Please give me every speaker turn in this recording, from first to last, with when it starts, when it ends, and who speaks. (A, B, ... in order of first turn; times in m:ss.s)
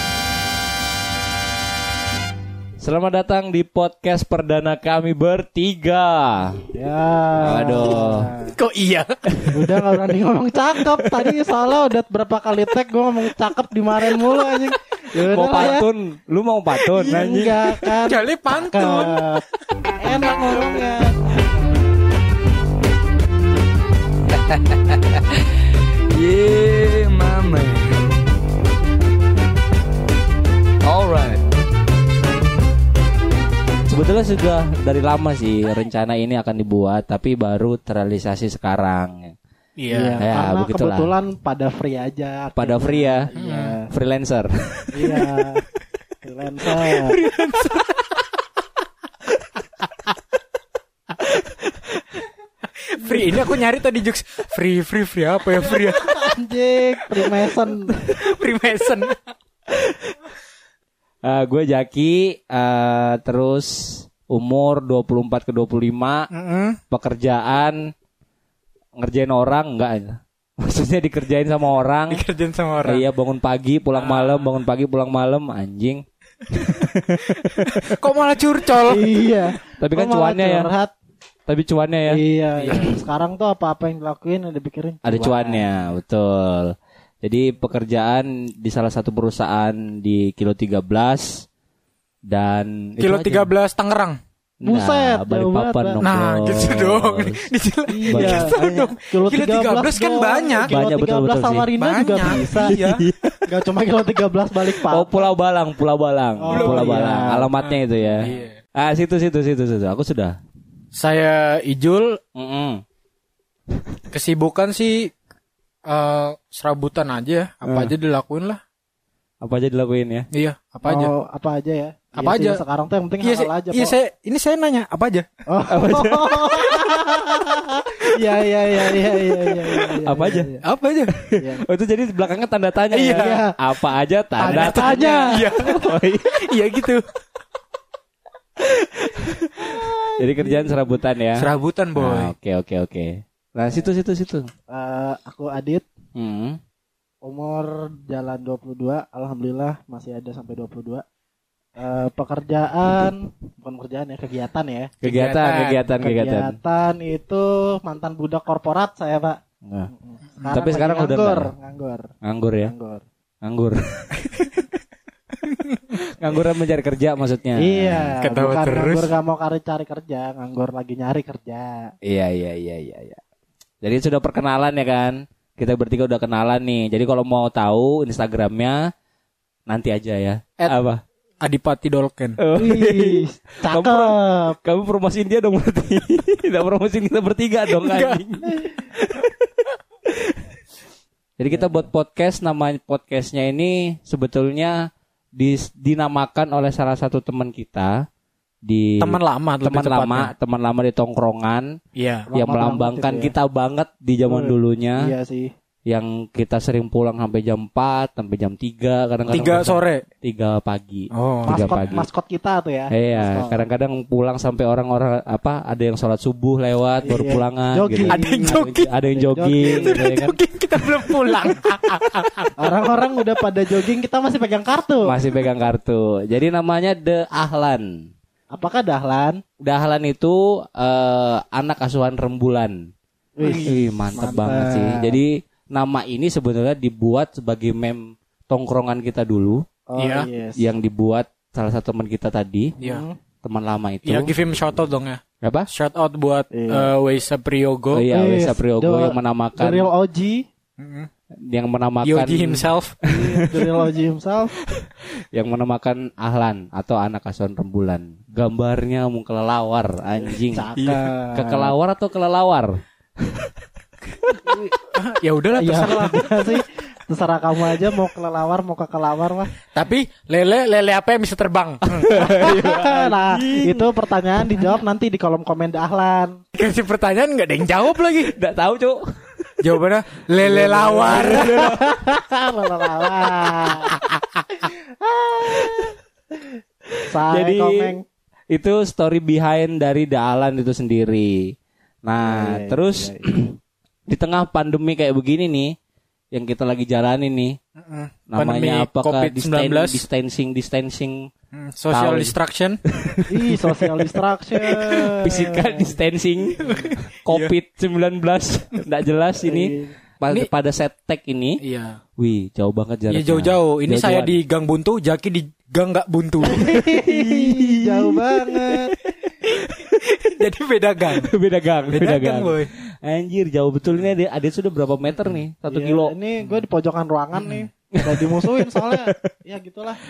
0:02.8-0:06.6 A
0:06.7-0:08.5 B
0:07.4-0:08.3 A
0:08.5-0:09.4 C
0:09.5-0:15.9 B
0:11.0-0:11.3 A
0:15.2-0:17.9 A
0:16.9-0:19.4 B
0:18.0-0:19.3 C
0:20.0-0:21.2 B
0:24.4-0:25.4 A
0:26.1-0:28.0 A
0:30.8-0:31.4 A
0:33.9-0:39.4 A
0:39.8-0:40.2 C
0:39.9-0:43.9 B
0:40.2-0:41.1 A
0:42.6-0:43.3 A
0:43.4-0:43.8 C
0:43.9-0:45.2 A
0:44.9-0:45.6 B
0:46.2-0:47.2 B
0:46.8-0:48.0 C
0:52.7-0:56.2 C
0:55.9-0:57.9 B
0:58.0-0:59.2 C
1:01.2-1:06.3 A
1:06.3-1:06.8 C
1:06.9-1:07.9 A
1:09.0-1:12.2 A
1:12.1-1:13.0 C
1:12.8-1:16.0 A
1:14.0-1:14.4 C
1:16.6-1:17.8 A
1:17.3-1:19.1 C
1:18.8-1:20.9 B
1:19.8-1:20.7 A
1:21.5-1:22.2 A
1:22.1-1:25.7 B
1:22.6-1:22.9 C
1:25.0-1:31.4 A
1:32.3-1:33.5 A
1:33.0-1:34.2 C
1:34.6-1:37.4 A
1:34.6-1:36.0 B
1:36.0-1:40.8 C
1:37.9-1:42.8 B
1:38.1-1:38.5 A
1:40.6-1:41.7 A
1:41.8-1:43.1 C
1:42.4-1:43.3 A
1:43.4-1:45.3 B
1:44.7-1:50.4 A
1:46.4-1:47.5 B
1:46.5-1:47.0 C
1:47.6-1:48.6 C
1:50.9-1:52.2 C
1:52.3-1:52.8 A
1:54.1-1:55.1 C
1:55.8-1:58.6 C
1:57.6-1:57.9 A
1:59.4-2:00.3 A
2:00.3-2:01.1 C
2:00.8-2:03.9 B
2:02.1-2:02.6 C
2:03.2-2:05.3 C
2:05.5-2:10.6 B
2:05.7-2:06.7 A
2:10.0-2:10.5 A
2:10.6-2:11.1 C
2:11.1-2:16.3 A
2:11.4-2:11.6 B
2:12.9-2:13.4 C
2:13.1-2:13.6 B
2:14.4-2:15.4 B
2:14.4-2:17.0 C
2:19.6-2:20.8 B
2:20.2-2:24.5 A
2:21.3-2:22.3 C
2:24.7-2:25.8 B
2:26.1-2:26.6 A
2:27.2-2:31.0 B
2:31.8-2:34.9 B
2:35.0-2:36.6 A
2:35.0-2:35.9 C
2:36.0-2:42.1 B
2:39.6-2:39.9 A
2:40.4-2:41.5 A
2:42.2-2:42.7 A
2:42.6-2:43.0 B
2:43.4-2:44.1 A
2:45.4-2:45.8 C
2:45.9-2:48.1 A
2:47.6-2:51.9 B
2:48.2-2:49.1 C
2:52.0-2:53.2 A
2:53.8-2:58.9 A
2:59.7-3:01.0 A
3:01.4-3:02.4 C
3:02.4-3:09.4 A
3:02.5-3:04.6 B
3:07.7-3:08.2 C
3:11.4-3:14.8 A
3:11.5-3:11.8 B
3:15.4-3:18.0 A
3:18.6-3:21.7 A
3:19.0-3:20.3 C
3:22.0-3:22.3 C
3:22.3-3:23.3 B
3:22.3-3:25.1 A
3:24.2-3:25.5 B
3:25.9-3:32.1 A
3:29.3-3:30.0 C
3:31.1-3:31.7 C
3:31.4-3:33.6 B
3:32.9-3:40.4 A
3:37.0-3:40.2 B
3:38.1-3:38.9 C
3:39.6-3:42.5 C
3:42.6-3:45.2 B
3:45.0-3:48.1 A
3:48.5-3:49.4 B
3:49.6-3:52.8 A
3:53.4-3:55.2 B
3:53.4-3:59.6 A
3:59.9-4:00.7 B
4:00.0-4:00.3 C
4:00.6-4:02.7 A
4:02.8-4:03.2 B
4:03.4-4:04.3 A
4:04.0-4:08.1 C
4:05.4-4:05.7 A
4:06.5-4:06.9 B
4:07.9-4:09.9 A
4:08.1-4:10.5 B
4:10.8-4:11.1 C
4:11.4-4:13.9 A
4:12.0-4:13.0 C
4:13.0-4:14.6 B
4:14.8-4:20.7 A
4:20.3-4:21.7 B
4:20.8-4:21.0 C
4:21.3-4:22.7 A
4:24.4-4:26.6 C
4:25.6-4:29.5 B
4:29.7-4:32.1 C
4:31.9-4:34.8 A
4:32.1-4:36.4 B
4:36.5-4:38.3 C
4:38.2-4:39.0 A
4:39.6-4:41.7 C
4:40.5-4:44.0 B
4:41.0-4:42.0 A
4:43.2-4:43.9 A
4:44.5-4:45.9 B
4:45.4-4:45.9 A
4:47.1-4:48.0 B
4:47.2-4:48.0 A
4:48.5-4:51.5 A
4:52.0-4:53.6 A
4:52.2-4:53.3 B
4:54.1-4:55.7 A
4:56.3-4:57.6 A
4:57.8-5:00.0 C
4:58.3-5:01.2 A
5:01.5-5:02.8 C
5:01.9-5:02.3 A
5:02.9-5:11.6 A
5:03.3-5:05.9 B
5:06.6-5:07.5 C
5:09.4-5:10.0 B
5:11.6-5:12.0 C
5:12.2-5:14.4 A
5:13.1-5:16.9 C
5:16.4-5:19.0 B
5:16.6-5:20.0 A
5:20.0-5:21.3 C
5:21.1-5:26.1 A
5:21.9-5:22.7 C
5:25.7-5:30.0 B
5:27.4-5:27.6 C
5:28.0-5:29.1 A